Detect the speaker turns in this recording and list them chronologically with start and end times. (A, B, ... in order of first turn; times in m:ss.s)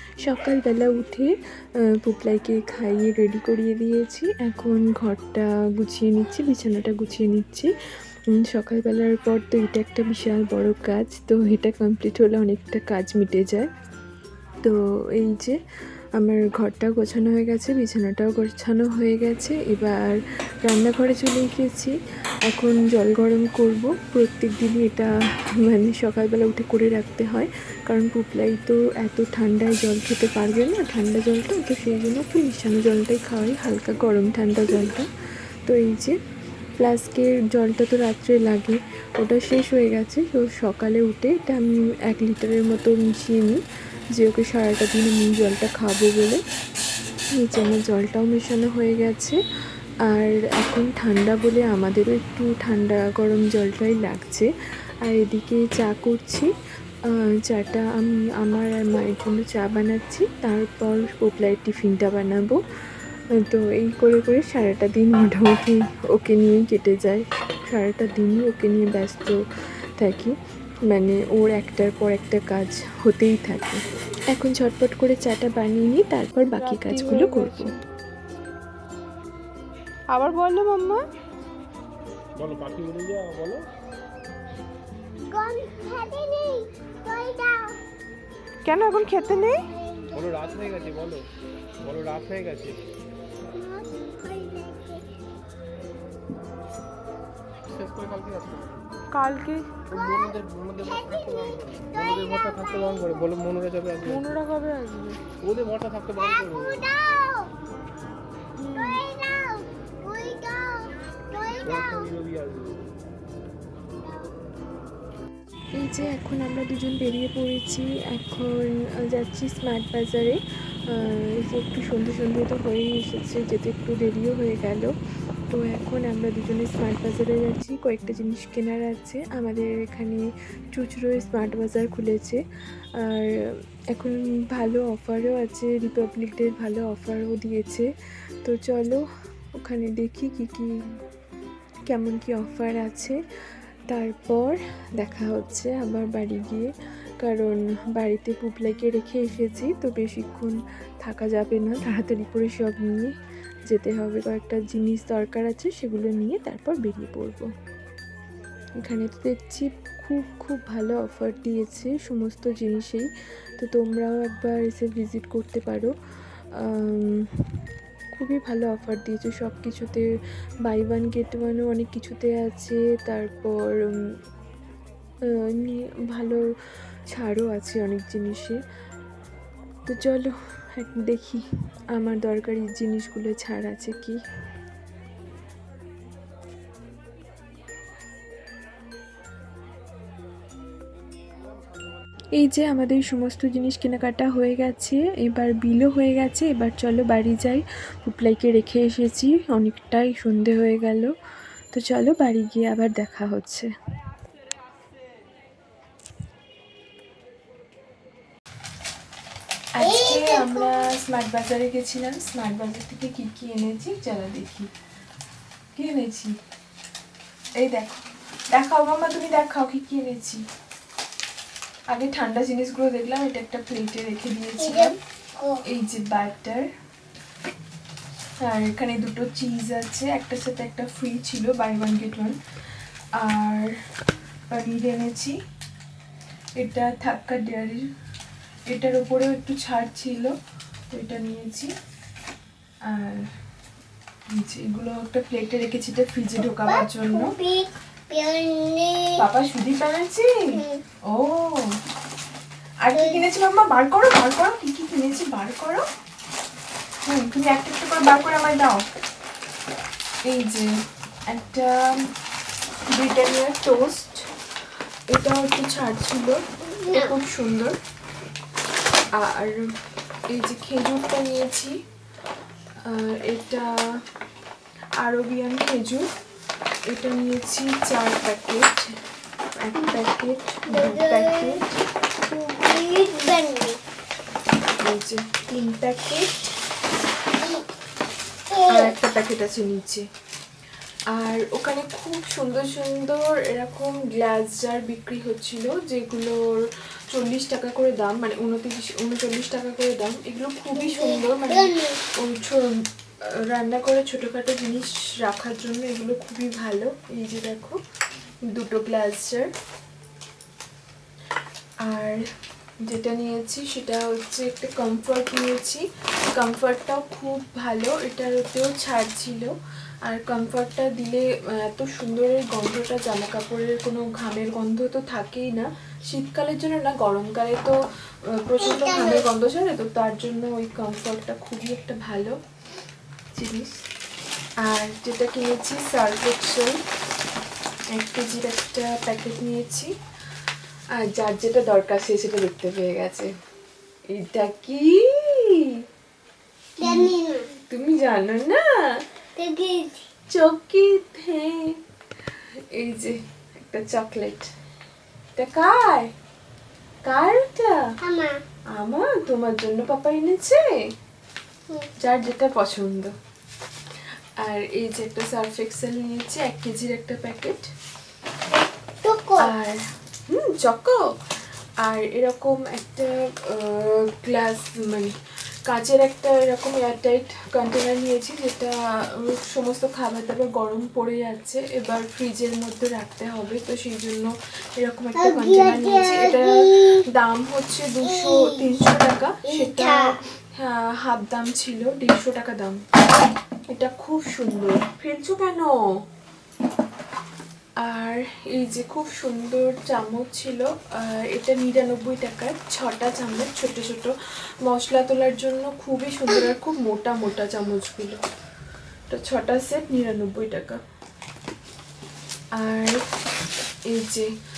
0:00.2-0:01.3 A
0:02.0-0:07.7 A
0:08.3-0:13.7 A
0:14.6-0:15.6 A
0:16.2-0:21.9 A
0:22.4-0:25.1 A
0:25.7-0:35.1 A
0:35.7-0:36.2 A
0:36.8-0:43.6 A
0:44.1-0:46.4 A
0:47.3-0:49.4 A
0:50.1-0:54.5 A
0:55.0-0:56.5 A
0:57.1-1:02.6 A
1:03.4-1:09.4 A
1:10.0-1:10.3 A
1:10.9-1:17.7 A
1:16.6-1:17.6 B
1:20.1-1:21.0 B
1:22.4-1:23.6 C
1:25.3-1:27.8 D
1:28.7-1:29.5 B
1:28.7-1:29.6 A
1:29.1-1:30.3 D
1:30.2-1:31.2 C
1:31.8-1:32.8 C
1:33.5-1:35.0 D
1:37.7-1:38.8 C
1:39.1-1:39.8 B
1:39.9-1:43.3 D
1:39.9-1:44.4 C
1:44.1-1:45.2 B
1:45.4-1:46.8 C
1:46.2-1:47.5 D
1:48.6-1:49.0 A
1:48.7-1:52.1 D
1:51.6-1:52.9 C
1:54.0-1:54.3 D
1:55.8-2:04.9 A
2:05.5-2:12.4 A
2:13.0-2:13.3 A
2:13.9-2:17.9 A
2:18.4-2:19.0 A
2:19.6-2:20.8 A
2:21.9-2:23.2 A
2:23.9-2:26.7 A
2:27.2-2:33.1 A
2:33.7-2:37.5 A
2:38.8-2:43.1 A
2:43.6-2:45.9 A
2:46.6-2:47.2 A
2:48.1-2:50.1 A
2:50.6-2:54.0 A
2:55.3-2:56.4 A
2:57.1-2:58.6 A
2:59.9-3:04.2 A
3:12.4-3:21.1 A
3:21.7-3:23.7 A
3:29.8-3:34.7 A
3:29.8-3:30.7 D
3:35.8-3:36.4 A
3:37.6-3:40.4 A
3:41.9-3:45.0 A
3:44.6-3:45.6 D
3:45.7-3:46.7 A
3:48.4-3:52.4 A
3:53.2-3:53.7 A
3:54.5-3:55.4 A
3:56.6-3:57.9 A
3:58.7-4:00.4 A
4:00.9-4:01.7 A
4:02.9-4:03.3 A
4:04.3-4:07.3 A
4:06.6-4:09.3 D
4:09.2-4:10.4 A
4:10.5-4:10.8 D
4:11.1-4:11.7 A
4:12.8-4:15.9 A
4:12.9-4:13.3 D
4:17.1-4:18.8 A
4:17.3-4:18.7 B
4:20.3-4:20.7 A
4:21.3-4:22.0 A
4:22.9-4:24.3 A
4:25.1-4:27.8 A
4:26.7-4:27.2 D
4:29.2-4:29.7 A
4:30.3-4:31.8 A
4:32.8-4:34.0 A
4:35.0-4:36.1 A
4:36.9-4:38.9 A
4:39.6-4:41.7 A
4:40.7-4:41.6 D
4:42.3-4:43.8 D
4:44.8-4:46.5 A
4:47.4-4:47.6 D
4:48.5-4:48.9 D
4:48.7-4:50.0 A
4:51.1-5:02.8 A
5:00.7-5:02.0 D
5:03.5-5:07.8 A
5:08.5-5:09.5 A
5:11.9-5:12.2 A
5:12.8-5:15.8 A
5:16.4-5:19.5 A
5:20.1-5:27.8 A
5:28.3-5:32.4 A
5:28.6-5:29.2 D
5:33.3-5:33.7 A
5:34.6-5:36.8 A
5:37.9-5:39.9 A
5:41.0-5:43.3 A
5:44.1-5:45.6 A
5:46.8-5:47.5 D
5:46.8-5:47.1 A
5:47.7-5:48.6 A
5:49.4-5:50.0 D
5:50.3-5:51.7 A
5:52.7-5:54.5 A
5:55.4-5:56.1 A
5:57.0-5:57.8 A
5:58.0-5:58.4 D
5:58.8-6:00.6 A
6:02.0-6:03.1 A
6:04.4-6:07.7 A
6:09.0-6:09.5 D
6:09.4-6:11.1 A
6:11.8-6:15.2 A
6:15.7-6:32.8 A
6:25.2-6:27.0 D
6:28.0-6:28.8 D
6:29.5-6:30.2 D
6:33.7-6:35.7 A
6:37.8-6:48.2 A
6:49.1-6:50.8 A
6:52.6-6:53.0 A
6:53.9-6:54.3 A